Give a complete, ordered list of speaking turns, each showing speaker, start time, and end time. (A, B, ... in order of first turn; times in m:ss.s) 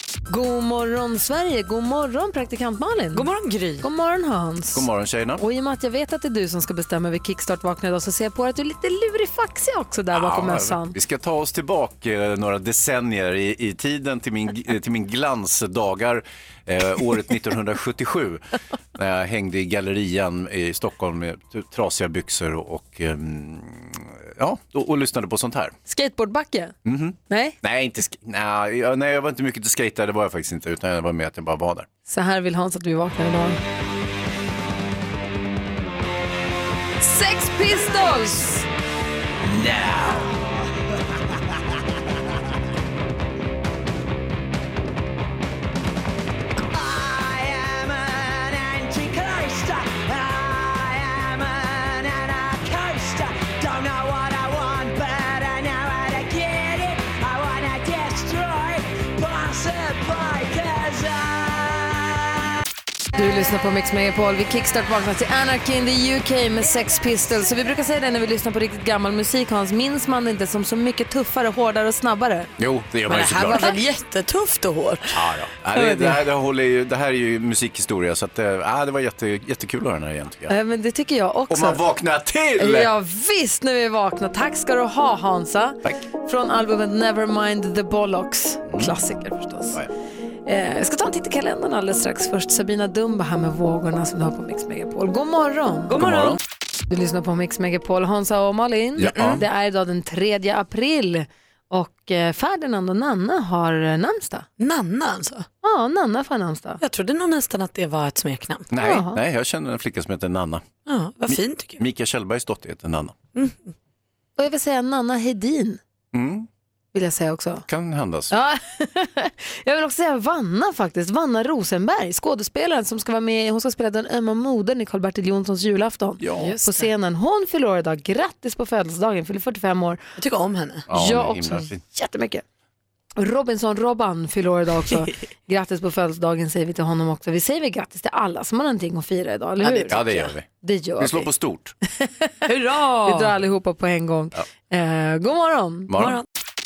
0:00.3-0:03.3 A
0:03.1-0:03.8 B
0:03.8-0:10.9 A
0:04.7-0:05.4 C
0:10.1-0:18.4 C
0:19.0-0:25.8 C
0:25.9-0:26.7 A
0:26.8-0:31.9 C
0:27.3-0:27.6 A
0:32.1-0:33.6 A
0:37.0-0:38.6 A
0:39.6-0:40.3 C
1:03.2-1:12.5 A
1:12.6-1:13.8 C
1:13.1-1:15.2 B
1:13.2-1:13.7 A
1:15.1-1:20.5 C
1:20.5-1:21.8 A
1:21.5-1:22.9 C
1:22.6-1:29.8 A
1:28.7-1:28.9 C
1:30.4-1:36.0 A
1:35.9-1:36.4 C
1:36.9-1:44.5 A
1:39.0-1:39.4 C
1:44.6-1:45.4 B
1:45.6-1:46.8 A
1:46.8-1:48.7 B
1:48.7-1:50.6 C
1:48.8-1:49.2 A
1:50.8-1:51.8 B
1:51.3-1:53.2 C
1:54.4-1:55.8 A
1:56.1-1:56.5 C
1:56.9-1:57.6 A
1:57.7-1:58.3 C
1:58.3-2:10.0 A
2:06.2-2:06.6 C
2:10.2-2:10.9 B
2:10.9-2:11.8 C
2:10.9-2:12.4 A
2:13.2-2:20.0 A
2:19.6-2:20.2 B
2:19.9-2:20.4 C
2:20.6-2:21.3 A
2:21.0-2:21.7 C
2:22.5-2:23.3 B
2:23.0-2:25.9 A
2:25.9-2:26.2 C
2:26.0-2:26.2 B